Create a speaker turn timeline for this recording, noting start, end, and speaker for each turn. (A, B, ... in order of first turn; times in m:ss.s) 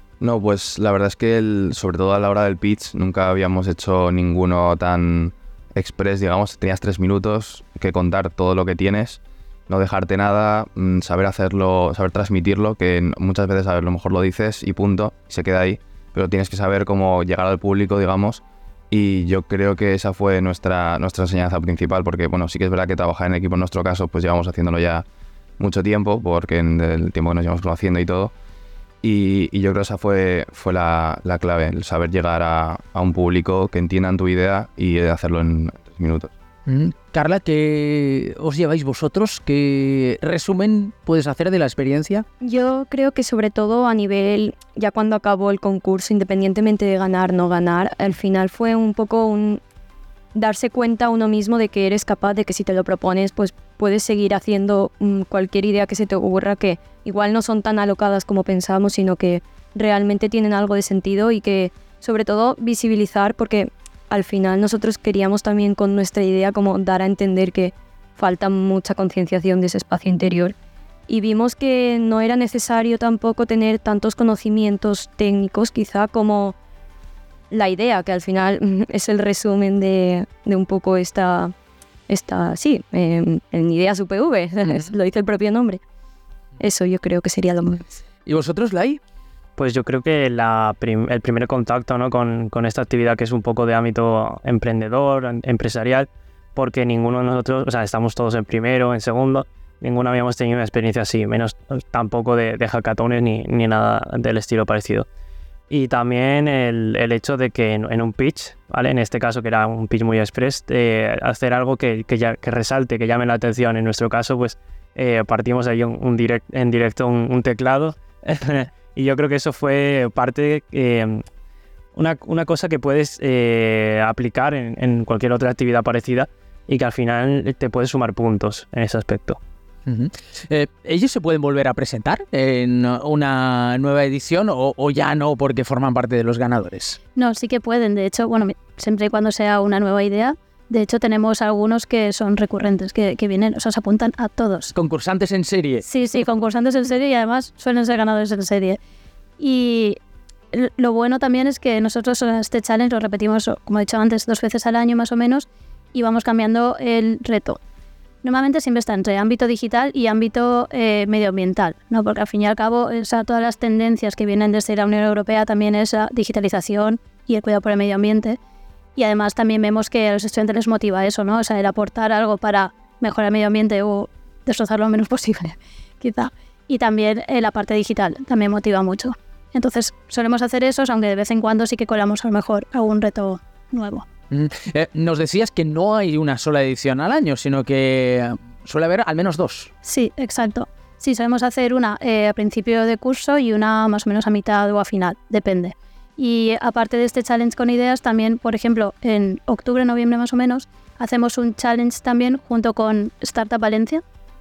0:00.2-0:25.0 A
0:25.6-0:28.3 A
0:29.0-0:36.3 A
0:36.7-0:42.2 B
0:42.4-0:49.6 C
0:50.3-1:10.6 C
1:11.1-1:16.6 C
1:17.5-1:21.5 C
1:22.1-1:25.8 C
1:24.6-1:24.9 B
1:26.6-1:28.0 C
1:28.2-1:29.0 B
1:29.6-1:45.1 D
1:45.7-2:01.2 D
2:02.0-2:09.4 D
2:09.9-2:17.0 B
2:17.2-2:24.7 E
2:24.7-2:25.8 B
2:25.8-2:28.8 E
2:29.4-2:30.0 E
2:30.5-2:37.6 E
2:38.2-2:48.4 E
2:49.0-3:04.1 E
3:04.3-3:09.7 B
3:09.8-3:24.0 E